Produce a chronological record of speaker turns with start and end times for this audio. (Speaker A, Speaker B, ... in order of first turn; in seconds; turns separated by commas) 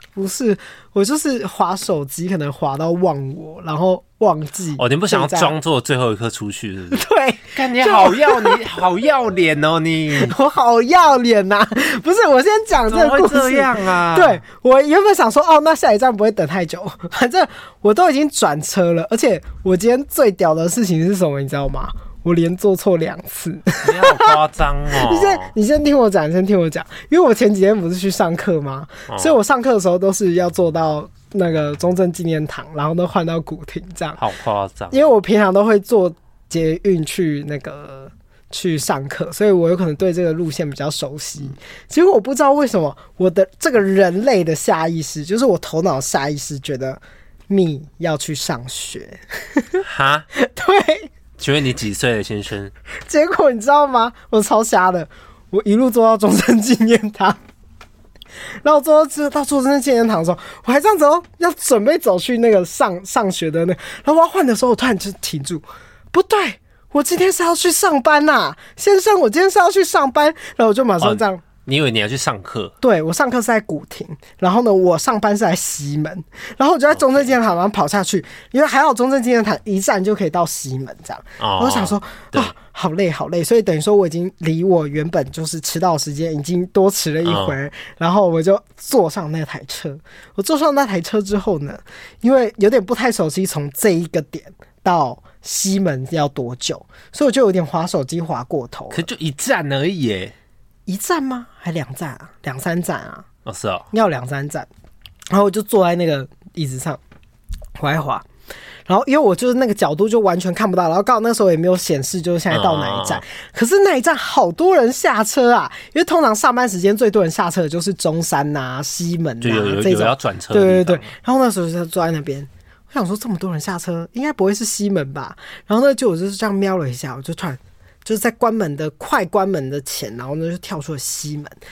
Speaker A: 0.1-5.5, Speaker B: 4.8-10.3, Speaker A: 6.9-8.6, Speaker A: 10.1-24.4, Speaker B: 12.9-14.4, Speaker B: 23.8-25.5, Speaker A: 24.9-34.2, Speaker B: 29.1-29.4, Speaker B: 34.2-35.0, Speaker A: 34.9-51.1, Speaker B: 49.8-50.3, Speaker B: 51.4-52.7, Speaker A: 53.1-57.4, Speaker A: 58.6-71.4, Speaker B: 71.0-72.7, Speaker A: 72.8-99.0, Speaker B: 76.9-77.3, Speaker B: 81.4-82.5, Speaker B: 87.2-87.5, Speaker B: 98.9-100.3, Speaker A: 100.9-103.2, Speaker B: 103.5-103.8, Speaker A: 103.9-104.7, Speaker A: 105.3-107.0, Speaker A: 107.8-108.2, Speaker A: 108.9-131.5, Speaker B: 112.5-113.2, Speaker B: 119.4-121.1